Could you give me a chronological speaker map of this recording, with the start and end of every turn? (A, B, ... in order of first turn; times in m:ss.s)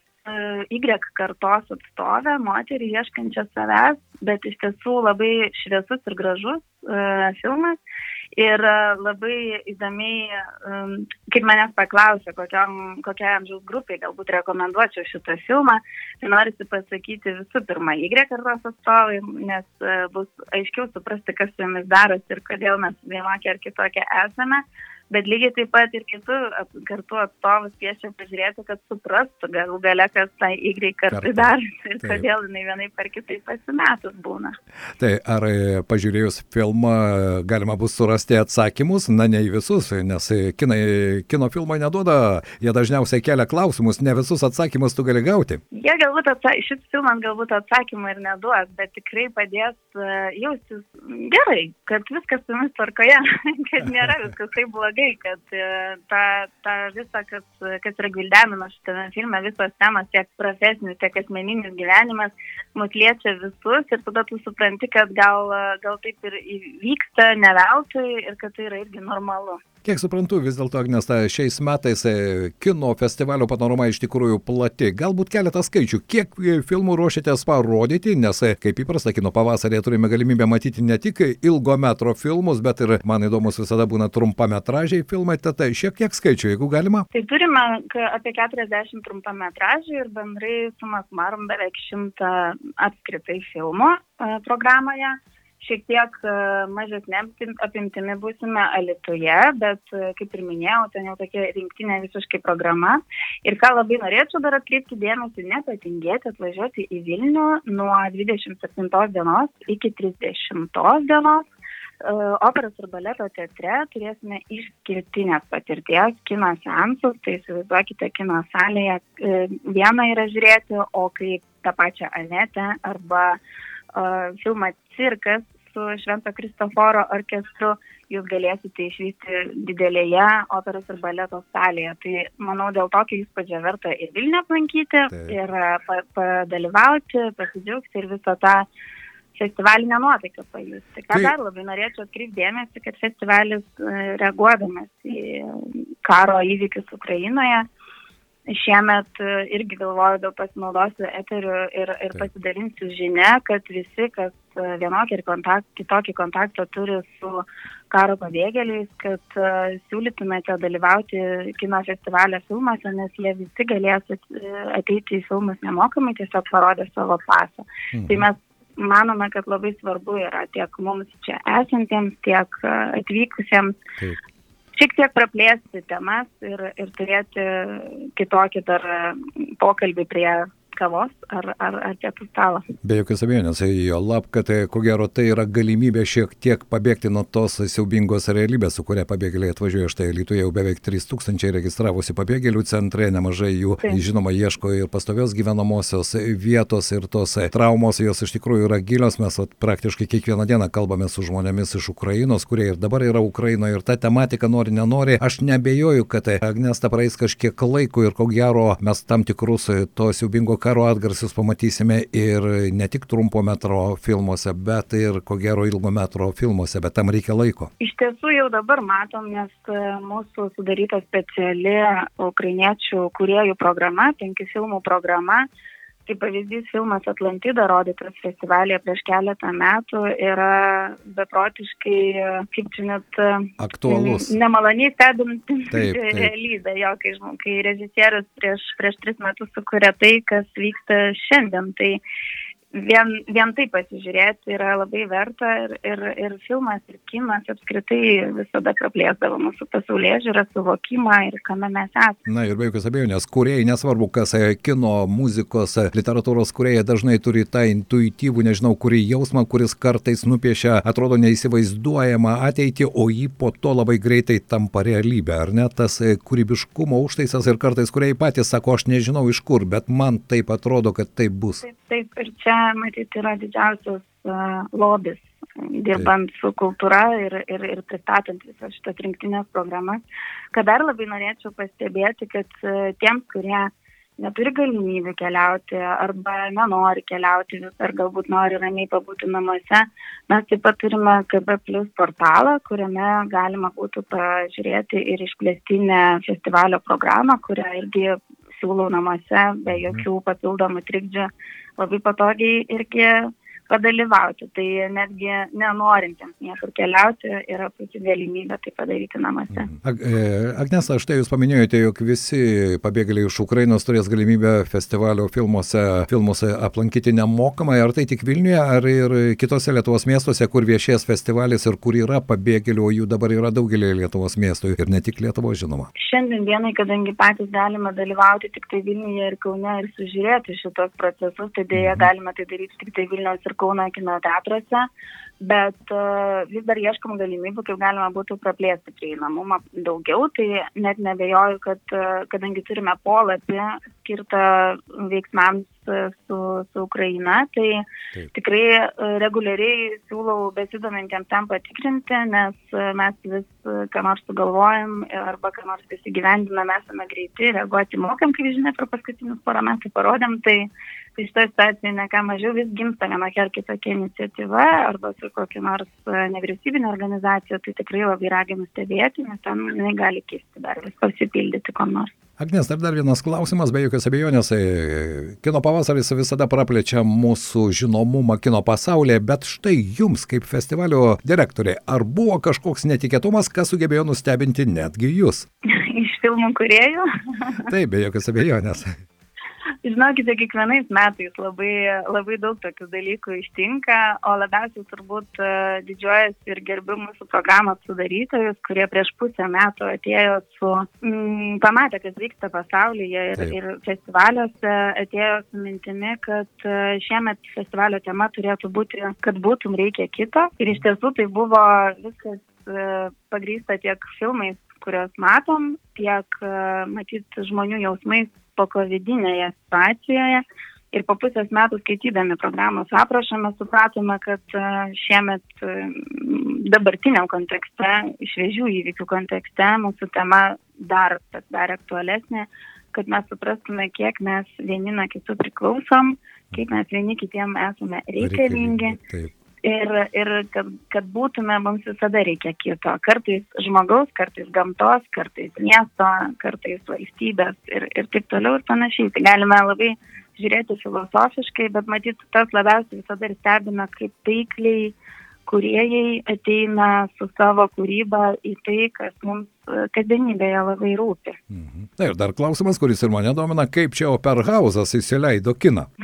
0:00.2-0:07.8 A
0:08.4-0:34.6 A
0:31.1-0:32.2 B
0:35.0-0:45.6 B
0:45.7-1:09.6 A
1:09.8-1:27.1 B
1:27.1-1:51.5 A
1:52.0-2:03.4 A
2:03.9-2:18.7 A
2:19.3-2:27.7 A
2:28.5-2:53.8 A
2:47.9-2:48.3 B
2:54.7-3:02.6 A
3:02.8-3:37.7 B
3:37.8-3:45.5 A
3:46.0-4:02.0 A
3:53.6-3:54.4 B
3:55.7-3:56.3 B
4:02.7-4:12.2 A
4:12.3-4:31.6 B
4:31.6-4:40.0 A
4:40.5-5:09.7 A
4:59.7-5:00.0 B
5:09.5-5:25.9 B
5:26.0-5:34.9 A
5:31.7-5:32.1 B
5:35.4-6:12.1 A
6:12.4-6:25.4 B
6:25.7-6:27.7 A
6:27.7-6:28.9 B
6:29.8-7:19.0 A
7:18.2-7:19.3 B
7:19.6-7:35.0 A
7:35.5-7:41.4 A
7:41.5-7:45.9 B